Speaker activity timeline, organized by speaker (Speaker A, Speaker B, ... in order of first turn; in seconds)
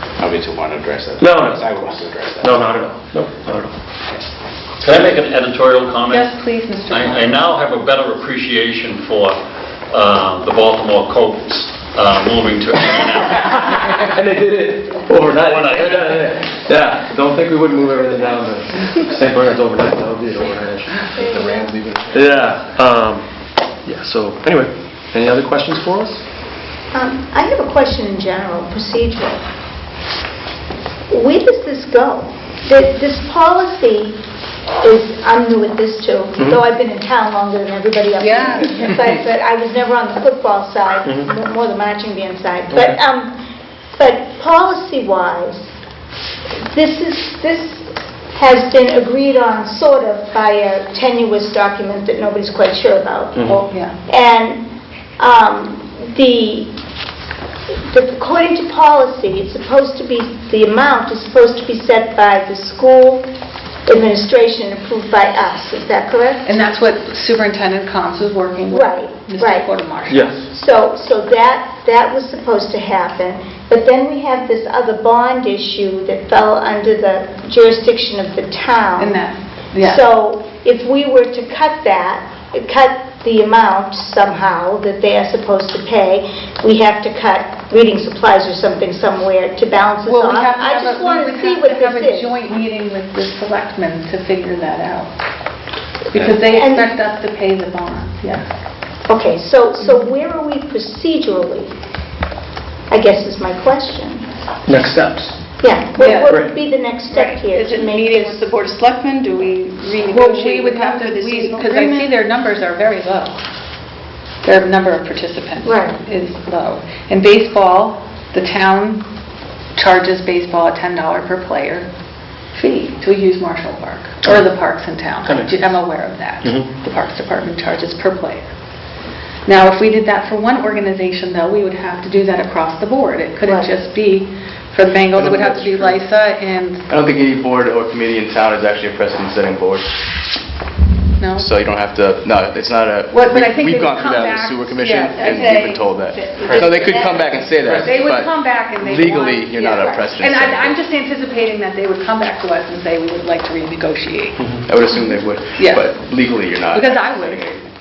Speaker A: 0.2-2.7, 96.1-96.4, 146.4-146.9
Speaker B: 1.2-3.8, 13.9-21.1, 22.1-23.3, 23.9-26.2, 42.7-43.0, 53.3-53.6, 70.1-70.5, 104.7-105.4, 124.2-124.5, 125.2-125.7, 126.4-126.7, 154.4-154.7
Speaker C: 4.8-9.4, 9.9-14.0, 15.3-16.2
Speaker D: 6.1-7.5, 38.2-39.1, 53.5-54.0, 66.5-70.3, 79.0-80.0, 90.0-95.1, 96.1-98.5, 99.8-100.1, 106.0-106.4, 110.1-113.4, 114.4-119.0, 119.8-121.9, 122.5-128.5, 129.5-136.8, 141.2-141.5, 143.1-145.8, 147.8-154.4, 155.6-155.9, 156.7-157.6
Speaker E: 21.2-21.8, 26.9-29.4, 31.1-34.2, 34.8-43.4, 44.0-45.7, 46.7-53.4, 54.1-54.6, 55.2-56.7, 57.9-63.3, 63.9-66.6, 68.7-69.7, 70.5-79.2, 79.8-92.3, 96.4-96.9, 99.1-101.7, 102.9-104.3, 105.6-108.5, 115.6-116.0, 133.4-133.7
Speaker F: 107.1-112.1, 145.2-147.9
Speaker G: 135.1-136.0, 136.9-139.9, 141.4-150.8, 154.7-157.7